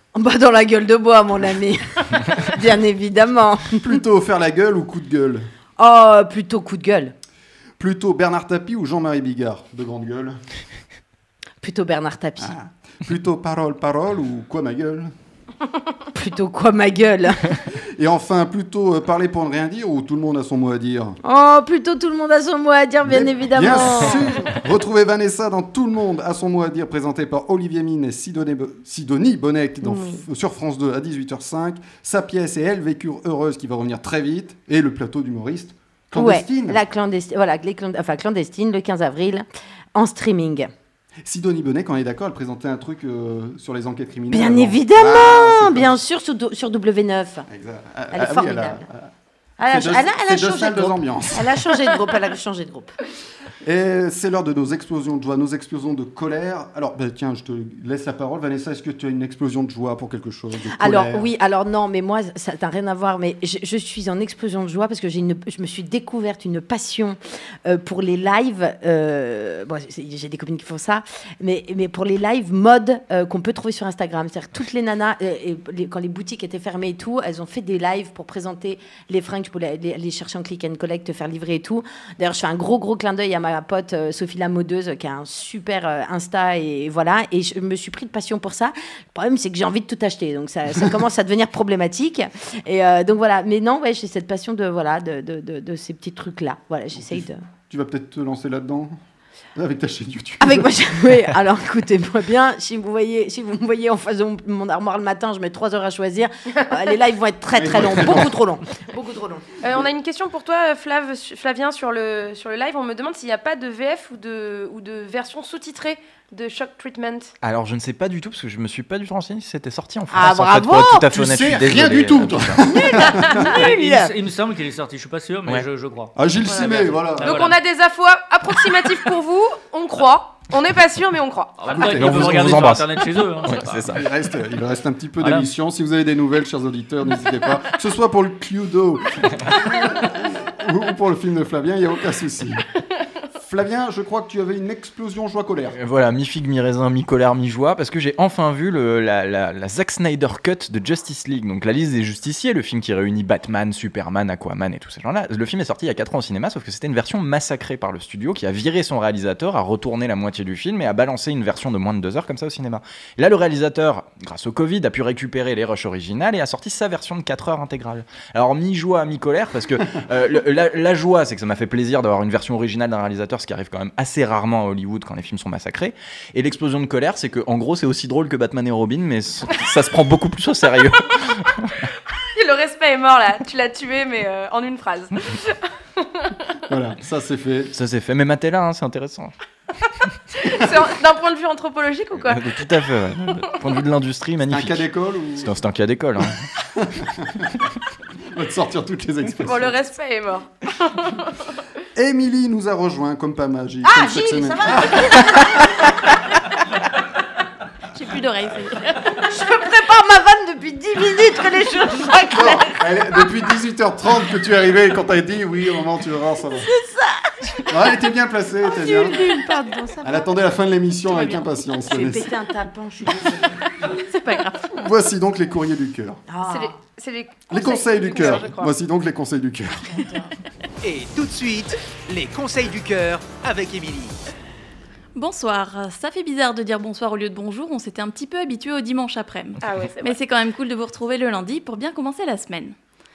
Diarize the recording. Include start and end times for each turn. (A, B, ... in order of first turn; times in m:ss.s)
0:00.2-0:04.0 A
0:03.8-0:05.5 B
0:05.8-0:07.1 A
0:07.8-0:10.4 B
0:11.6-0:12.6 A
0:12.4-0:15.1 B
0:16.1-0:17.6 A
0:17.8-0:21.2 B
0:21.2-0:24.4 A
0:23.0-0:36.8 B
0:29.8-0:30.2 A
0:36.1-0:40.7 A
0:41.2-0:46.0 B
0:44.3-0:47.5 A
0:47.5-0:49.1 B
0:48.1-0:48.8 A
0:49.6-0:52.9 A
0:49.6-0:51.6 B
0:53.6-1:01.3 B
1:00.8-1:37.4 A
1:37.0-1:39.0 B
1:39.6-1:40.9 B
1:40.4-1:49.5 A
1:47.6-1:48.4 B
1:49.6-1:57.3 C
1:57.4-2:02.6 D
2:00.1-2:01.1 A
2:01.1-2:03.1 B
2:02.7-2:04.1 A
2:03.4-2:07.6 E
2:06.2-2:07.4 B
2:07.2-2:11.8 C
2:11.6-2:14.0 E
2:11.7-2:12.8 B
2:11.9-2:14.0 D
2:13.9-2:22.7 B
2:15.2-2:15.5 E
2:23.4-2:25.8 B
2:25.7-3:01.8 D
3:02.4-3:06.3 C
3:06.7-3:07.7 B
3:07.7-3:09.3 D
3:10.3-3:12.6 C
3:12.2-3:14.8 D
3:14.5-3:15.6 B
3:15.4-3:16.4 D
3:16.7-3:17.5 B
3:18.3-3:19.8 B
3:19.4-3:21.3 C
3:22.0-3:25.5 B
3:23.8-3:25.9 A
3:28.0-3:29.2 F
3:29.2-3:32.8 A
3:32.3-3:36.7 B
3:36.6-3:37.7 A
3:37.7-3:39.2 B
3:38.6-3:40.3 A
3:40.0-3:42.3 B
3:41.9-3:43.5 A
3:44.0-3:44.8 F
3:44.8-3:46.2 B
3:46.3-3:46.7 A
3:46.4-3:48.7 C
3:47.5-3:50.0 B
3:49.9-3:50.2 A
3:50.8-3:54.2 G
3:55.2-4:02.8 F
3:59.6-4:00.2 C